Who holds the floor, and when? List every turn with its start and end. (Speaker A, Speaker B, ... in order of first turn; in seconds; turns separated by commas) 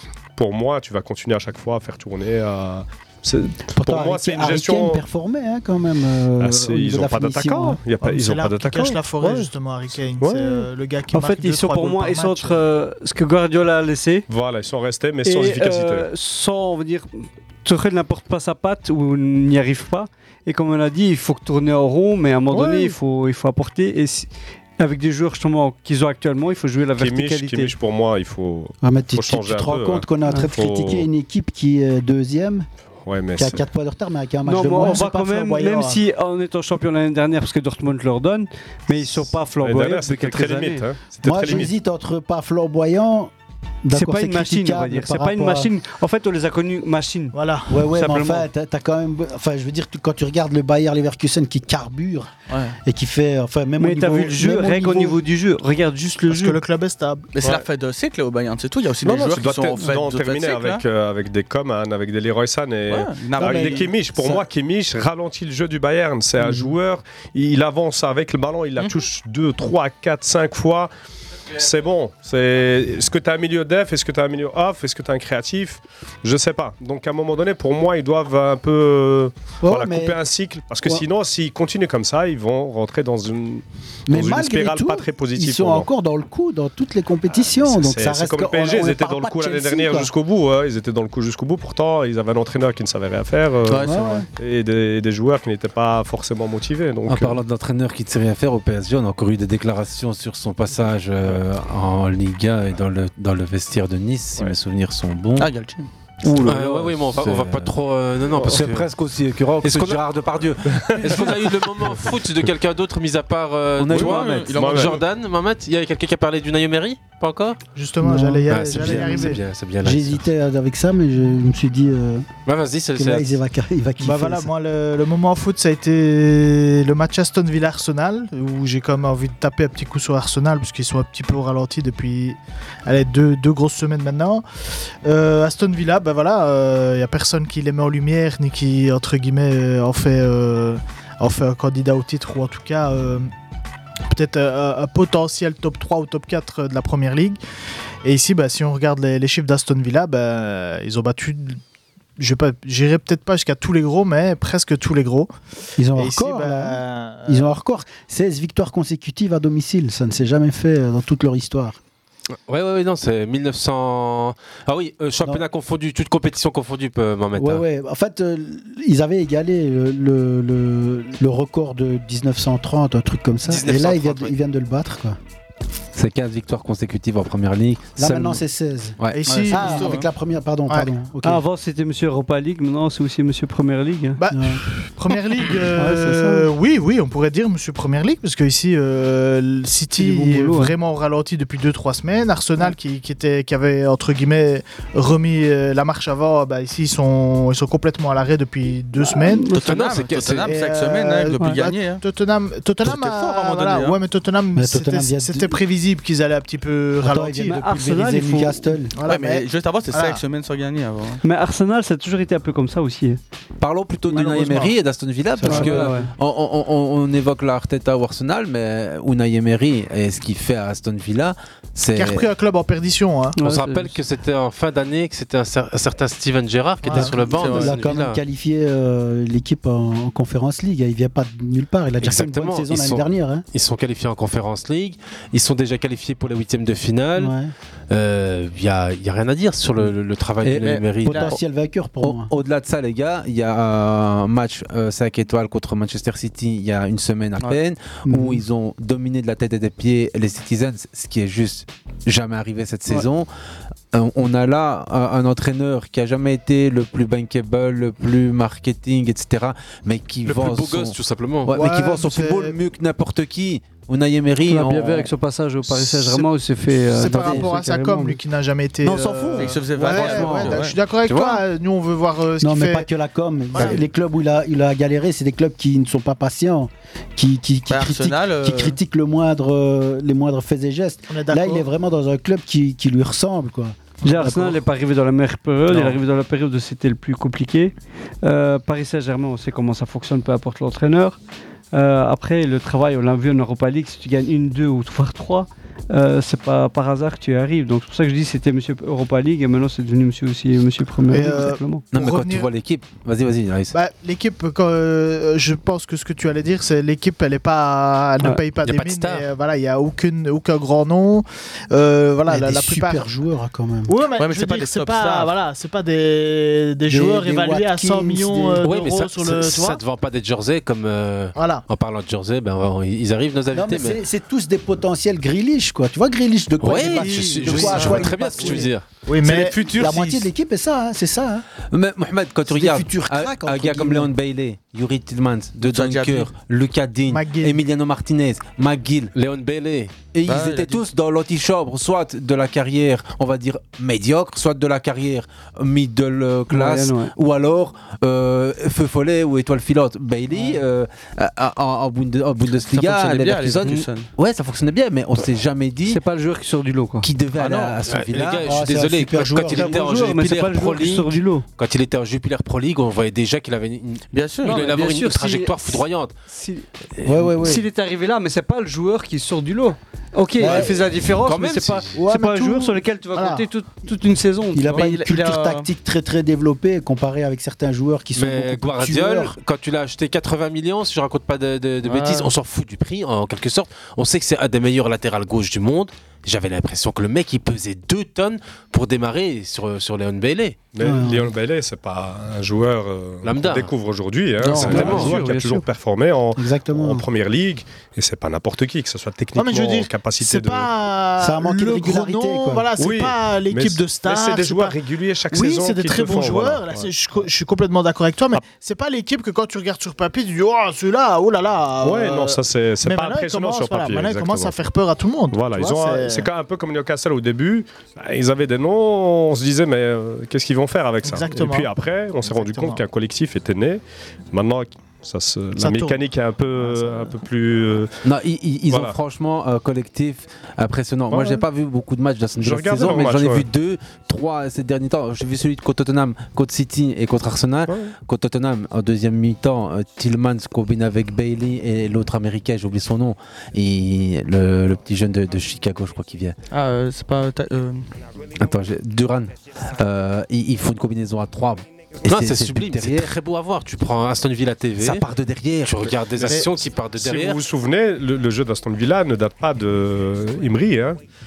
Speaker A: 0.4-5.0, Speaker B: 3.7-7.8, Speaker A: 6.4-9.5, Speaker C: 8.0-12.6, Speaker A: 10.2-10.7, Speaker D: 11.1-14.3, Speaker A: 14.3-16.1, Speaker D: 15.2-27.8, Speaker A: 22.5-23.0, Speaker A: 27.0-31.1, Speaker B: 28.8-32.7, Speaker A: 33.0-33.7, Speaker B: 33.4-35.8, Speaker D: 34.5-40.9, Speaker C: 34.8-36.0, Speaker A: 39.6-41.7, Speaker B: 41.2-43.3, Speaker B: 43.8-45.7, Speaker D: 43.9-47.4, Speaker C: 47.3-47.7, Speaker B: 47.7-52.3, Speaker D: 47.9-48.5, Speaker E: 52.5-52.8, Speaker B: 52.8-55.2, Speaker D: 53.8-56.6, Speaker C: 56.3-57.3, Speaker E: 57.3-60.8, Speaker A: 59.0-70.9, Speaker E: 62.9-64.2, Speaker B: 63.4-64.4, Speaker A: 71.5-85.9, Speaker B: 79.6-80.2, Speaker B: 84.1-90.1, Speaker A: 87.3-97.4, Speaker E: 93.7-94.3, Speaker B: 93.8-94.3, Speaker F: 97.1-105.5, Speaker E: 105.4-105.9, Speaker F: 106.2-107.8, Speaker G: 106.4-108.9, Speaker F: 108.3-111.5, Speaker G: 109.6-110.1, Speaker A: 110.8-111.2, Speaker G: 111.0-117.6, Speaker F: 113.8-114.4, Speaker E: 113.9-115.0, Speaker A: 114.5-115.0, Speaker C: 117.8-119.4, Speaker B: 118.0-122.3, Speaker G: 118.5-120.2, Speaker G: 122.5-123.3, Speaker B: 123.0-124.5, Speaker C: 124.0-134.4, Speaker C: 135.0-143.3, Speaker C: 144.1-147.4, Speaker C: 148.0-151.6, Speaker C: 152.2-155.3, Speaker B: 155.8-161.8, Speaker C: 155.9-157.5, Speaker G: 162.5-167.6, Speaker B: 167.4-175.2, Speaker G: 173.5-174.3, Speaker F: 175.9-178.4, Speaker B: 178.0-181.4, Speaker F: 179.0-179.2, Speaker C: 179.1-180.0, Speaker E: 179.3-180.1, Speaker D: 181.2-184.2, Speaker C: 184.2-199.5, Speaker B: 184.3-184.6, Speaker D: 185.8-186.5, Speaker D: 190.0-190.8, Speaker D: 199.1-199.7, Speaker E: 199.5-202.0, Speaker G: 199.6-200.5, Speaker C: 200.4-207.6, Speaker E: 202.8-204.0, Speaker B: 204.6-205.6, Speaker B: 207.0-208.9, Speaker D: 207.5-208.7, Speaker C: 208.9-210.2, Speaker E: 209.1-211.2, Speaker D: 211.2-213.2, Speaker F: 213.6-222.3, Speaker C: 214.1-214.7, Speaker B: 215.4-216.0, Speaker D: 215.4-216.1, Speaker C: 221.9-223.4, Speaker D: 223.4-224.0, Speaker G: 223.4-228.2, Speaker E: 226.8-227.8, Speaker B: 226.9-233.4, Speaker G: 232.0-237.3, Speaker B: 237.2-237.5, Speaker G: 237.9-241.3, Speaker F: 240.4-240.8, Speaker E: 240.6-241.4, Speaker B: 241.0-242.3, Speaker F: 242.0-253.3, Speaker B: 248.1-248.4, Speaker F: 253.9-265.1, Speaker G: 260.3-261.5, Speaker C: 261.5-262.6, Speaker D: 264.5-268.2, Speaker C: 265.7-272.9, Speaker B: 269.0-270.0, Speaker E: 269.3-270.8, Speaker F: 269.8-271.4, Speaker B: 272.4-284.6, Speaker C: 273.5-273.8, Speaker E: 277.7-278.8, Speaker C: 281.1-281.7, Speaker D: 284.0-291.2, Speaker D: 291.7-301.9, Speaker C: 301.1-302.5, Speaker F: 301.9-303.8, Speaker C: 303.7-313.1, Speaker G: 308.6-309.3, Speaker B: 312.3-313.9, Speaker C: 313.9-319.8, Speaker E: 314.2-315.3, Speaker B: 316.9-318.6, Speaker G: 318.6-324.0, Speaker C: 321.4-321.6, Speaker B: 323.5-328.7, Speaker G: 326.6-328.9, Speaker C: 326.9-327.6, Speaker E: 327.6-327.8, Speaker F: 327.6-328.1, Speaker C: 329.1-329.6, Speaker E: 329.2-330.3, Speaker B: 329.7-331.4, Speaker F: 331.7-339.1, Speaker B: 332.5-334.1, Speaker E: 335.6-336.3, Speaker C: 337.1-337.6, Speaker G: 339.1-339.9, Speaker F: 340.1-356.0, Speaker E: 340.3-340.8, Speaker D: 346.5-347.1, Speaker E: 352.7-354.1, Speaker D: 355.9-357.1, Speaker F: 357.0-358.6, Speaker E: 357.4-357.8, Speaker G: 357.9-366.1, Speaker B: 358.4-359.8, Speaker D: 359.5-361.5, Speaker E: 364.1-364.7, Speaker D: 364.4-366.7, Speaker B: 367.0-367.6, Speaker D: 367.4-374.9, Speaker B: 370.4-370.7, Speaker G: 370.4-372.0, Speaker C: 372.0-373.5, Speaker B: 374.5-379.4, Speaker E: 374.7-375.7, Speaker G: 378.2-390.6, Speaker A: 390.7-400.7, Speaker B: 390.8-391.3, Speaker G: 393.2-393.7, Speaker E: 394.4-395.2, Speaker D: 394.4-395.7, Speaker G: 394.7-395.2, Speaker B: 396.4-397.1, Speaker C: 399.4-416.3, Speaker B: 401.2-402.7, Speaker A: 402.8-407.2, Speaker A: 411.8-414.6, Speaker A: 415.3-427.9, Speaker C: 421.0-422.8, Speaker C: 425.6-426.0, Speaker F: 428.1-446.4, Speaker A: 428.7-429.0, Speaker A: 431.1-431.4, Speaker A: 432.4-433.5, Speaker A: 437.7-437.9, Speaker E: 446.5-447.9, Speaker F: 448.4-453.1, Speaker G: 452.1-455.1, Speaker F: 454.8-455.9, Speaker G: 455.6-457.4, Speaker A: 456.2-461.0